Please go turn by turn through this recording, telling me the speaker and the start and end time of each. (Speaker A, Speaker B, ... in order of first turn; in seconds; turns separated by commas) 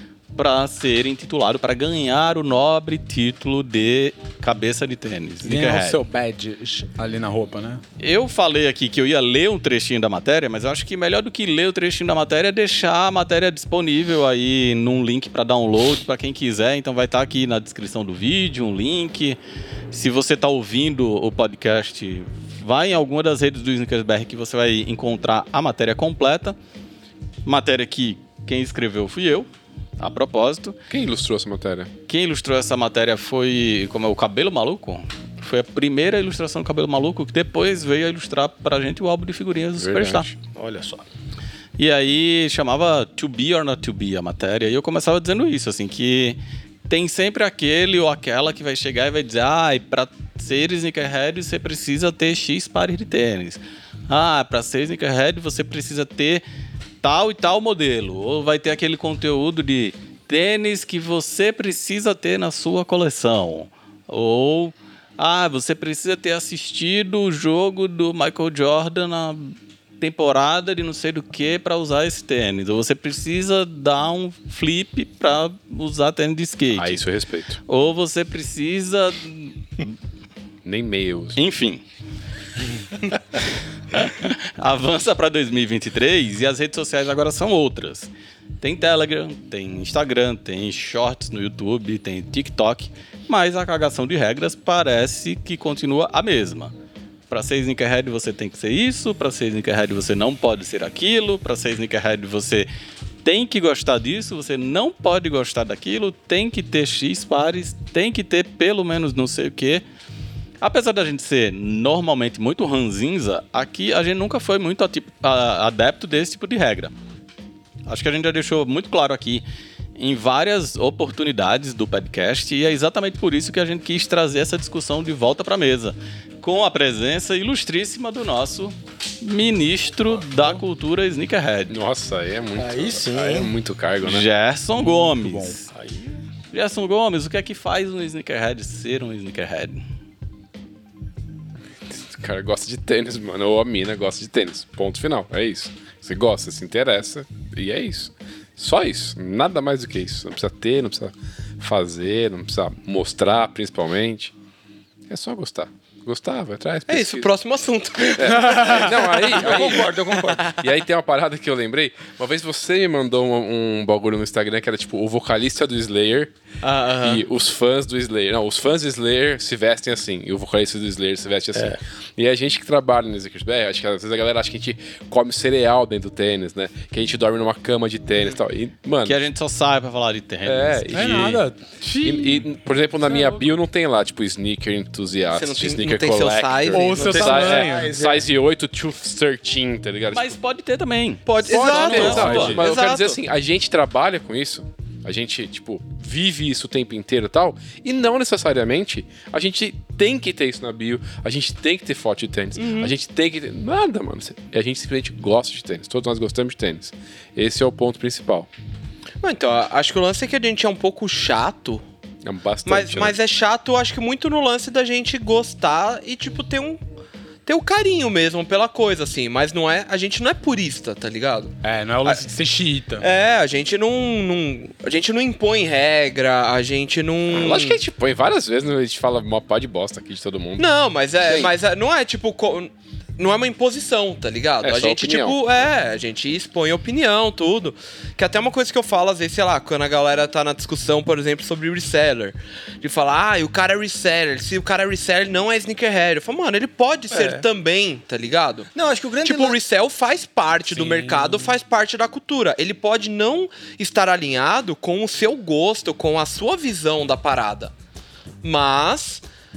Speaker A: 0.3-6.0, Speaker B: 5.4-7.8, Speaker A: 8.0-19.4, Speaker A: 19.9-26.6, Speaker A: 27.4-29.5, Speaker A: 30.0-30.8, Speaker C: 30.9-31.9, Speaker A: 32.1-40.3, Speaker C: 39.8-40.4, Speaker D: 40.5-41.0, Speaker A: 41.8-56.4, Speaker A: 57.0-77.0, Speaker C: 76.7-77.6, Speaker A: 77.7-79.9, Speaker C: 80.7-81.4, Speaker A: 81.4-81.8, Speaker A: 83.9-88.1, Speaker A: 88.6-96.7, Speaker A: 97.3-102.7, Speaker A: 103.2-109.8, Speaker A: 110.6-116.9, Speaker A: 117.9-119.4, Speaker A: 120.0-131.8, Speaker C: 131.7-134.3, Speaker D: 132.6-133.5, Speaker A: 134.0-135.7, Speaker B: 135.2-135.6, Speaker D: 135.7-136.2, Speaker A: 136.5-139.8, Speaker C: 141.9-154.3, Speaker C: 155.1-157.3, Speaker E: 156.9-159.7, Speaker C: 158.2-166.3, Speaker D: 159.3-160.5, Speaker E: 166.6-167.2, Speaker C: 167.0-179.2, Speaker A: 179.1-181.4, Speaker C: 180.5-181.4, Speaker B: 180.9-182.5, Speaker C: 182.0-190.4, Speaker B: 183.1-183.4, Speaker E: 185.3-187.2, Speaker B: 186.7-187.9, Speaker D: 186.9-188.2, Speaker A: 190.1-192.6, Speaker E: 191.3-193.2, Speaker C: 191.5-208.5, Speaker B: 191.5-192.6, Speaker E: 202.6-202.9, Speaker E: 209.2-211.8, Speaker C: 212.2-213.2, Speaker E: 212.7-216.8, Speaker E: 217.5-222.2, Speaker B: 221.6-223.1, Speaker E: 223.0-227.8, Speaker C: 227.3-230.7, Speaker E: 230.6-248.7, Speaker C: 231.2-231.5, Speaker C: 234.6-235.6, Speaker D: 247.1-247.4, Speaker D: 248.7-249.6, Speaker E: 249.2-257.7, Speaker B: 250.8-251.4, Speaker E: 258.4-259.2